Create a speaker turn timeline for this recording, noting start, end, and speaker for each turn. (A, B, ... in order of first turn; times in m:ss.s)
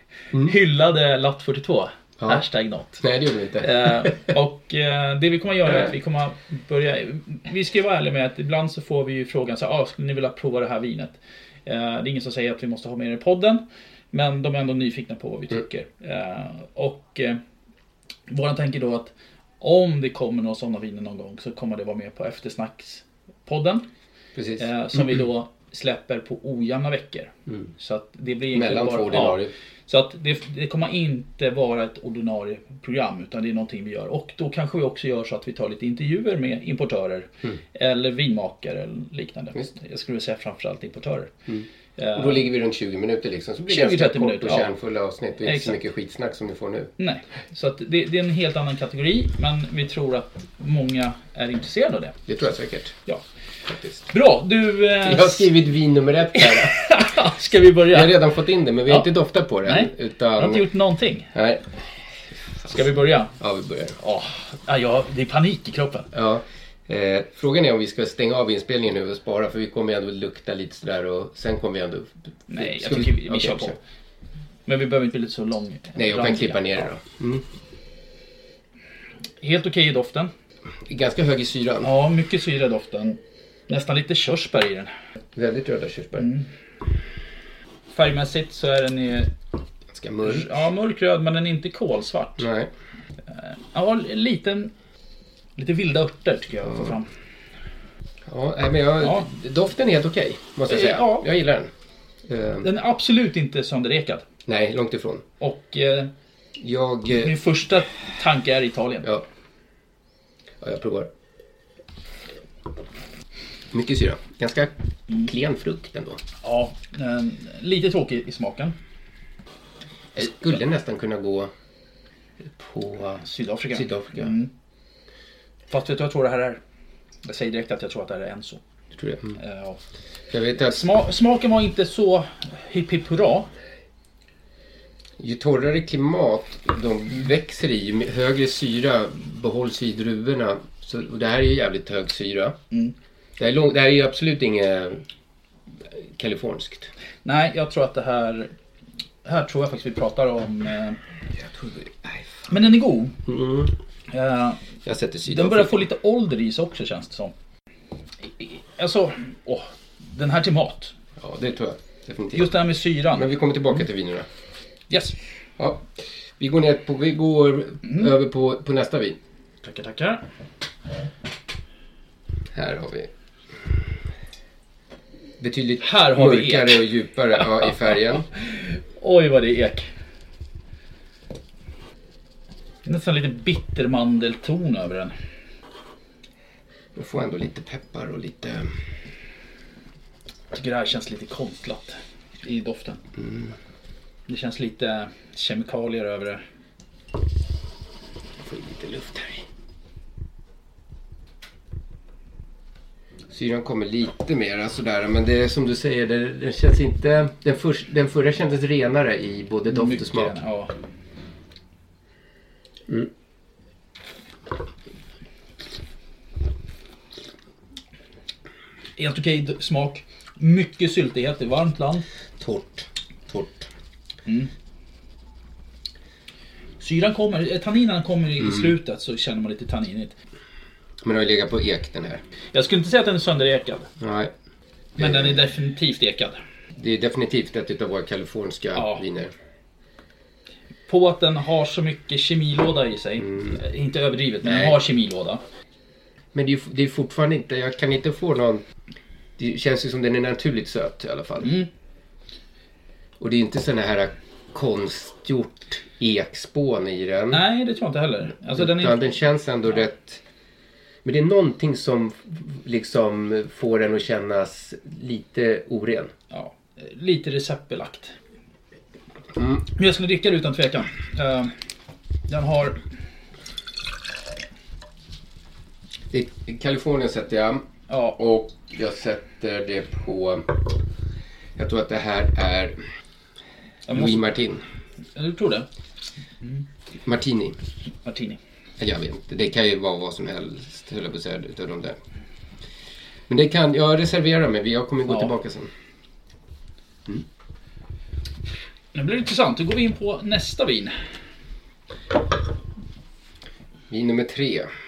0:00.4-0:03.0 A
0:02.2-0:02.4 B
0:03.0-0:04.2 B
0:03.6-0:17.4 A
0:18.3-0:23.9 A
0:24.4-0:25.2 B
0:24.6-0:41.3 A
0:28.5-0:29.5 B
0:41.5-0:46.9 B
0:42.0-0:42.5 A
0:43.7-0:44.7 A
0:45.4-0:45.8 A
0:47.0-0:52.2 A
0:52.3-0:53.0 B
0:53.7-0:54.0 B
0:54.1-0:55.5 A
0:55.0-0:56.9 B
0:56.4-0:58.2 A
0:57.9-1:00.7 B
0:59.6-1:01.3 A
1:01.3-1:01.8 B
1:02.7-1:03.3 A
1:03.4-1:04.0 B
1:04.0-1:06.1 A
1:06.1-1:13.8 B
1:12.5-1:13.8 A
1:14.7-1:16.9 A
1:16.0-1:17.4 B
1:19.4-1:20.3 A
1:20.8-1:21.9 B
1:21.8-1:24.9 A
1:25.3-1:26.3 B
1:26.2-1:26.5 A
1:27.9-1:29.3 A
1:29.9-1:30.7 B
1:30.2-1:32.5 A
1:32.4-1:32.7 B
1:33.3-1:34.7 A
1:35.6-1:37.1 A
1:38.3-1:41.7 B
1:39.0-1:39.3 A
1:40.7-1:41.3 A
1:42.3-1:42.7 B
1:42.6-1:44.2 A
1:44.5-1:45.2 B
1:45.4-1:46.1 A
1:46.6-1:47.4 B
1:47.1-1:49.1 A
1:50.6-1:51.1 B
1:53.7-1:56.2 B
1:56.4-1:58.8 A
2:00.2-2:01.5 B
2:02.5-2:04.3 B
2:03.2-2:04.5 A
2:05.7-2:06.6 A
2:07.2-2:08.6 A
2:08.9-2:09.4 B
2:09.4-2:09.8 A
2:10.3-2:10.9 B
2:10.6-2:13.5 A
2:15.2-2:22.6 B
2:23.4-2:25.0 B
2:26.2-2:26.9 B
2:27.2-2:28.5 A
2:29.2-2:31.0 A
2:31.4-2:32.3 B
2:32.5-2:33.2 A
2:33.3-2:33.7 B
2:34.1-2:34.6 A
2:34.8-2:35.8 B
2:35.3-2:37.3 A
2:38.3-2:40.9 A
2:41.2-2:42.5 B
2:42.3-2:43.3 A
2:43.1-2:44.3 B
2:44.9-2:45.2 A
2:45.6-2:45.9 B
2:46.4-2:49.2 B
2:49.6-2:50.2 A
2:52.5-2:53.1 B
2:55.4-2:58.3 B
2:55.8-2:56.9 A
2:58.4-2:59.9 A
3:02.8-3:05.2 A
3:07.0-3:08.7 B
3:10.5-3:13.0 A
3:13.2-3:13.5 B
3:14.3-3:16.4 A
3:18.4-3:19.5 B
3:23.3-3:30.4 B
3:29.7-3:30.7 A
3:39.0-3:42.0 A
3:42.4-3:43.7 B
3:46.8-3:50.2 A
3:48.4-3:48.7 B
3:51.0-3:52.2 B
3:52.5-3:53.9 A
3:54.0-3:54.3 B
3:55.0-3:56.4 A
3:55.0-3:55.4 B
3:56.8-3:59.3 B
3:58.7-3:59.0 A
4:00.9-4:05.4 A
4:03.2-4:03.6 B
4:04.5-4:04.7 B
4:06.3-4:08.6 B
4:09.4-4:11.6 B
4:11.4-4:11.7 A
4:13.2-4:17.4 B
4:17.3-4:19.2 A
4:18.5-4:20.2 B
4:21.0-4:26.1 B
4:26.3-4:28.1 A
4:29.4-4:29.7 B
4:29.8-4:31.5 A
4:32.3-4:32.8 A
4:36.1-4:40.6 B
4:37.9-4:38.2 A
4:41.6-4:42.8 B
4:43.9-4:44.3 A
4:43.9-4:44.6 B
4:45.2-4:45.7 A
4:47.0-4:47.6 B
4:48.0-4:48.4 A
4:48.8-4:52.0 B
4:53.3-4:55.7 B
4:58.9-5:01.0 A
5:03.9-5:04.7 B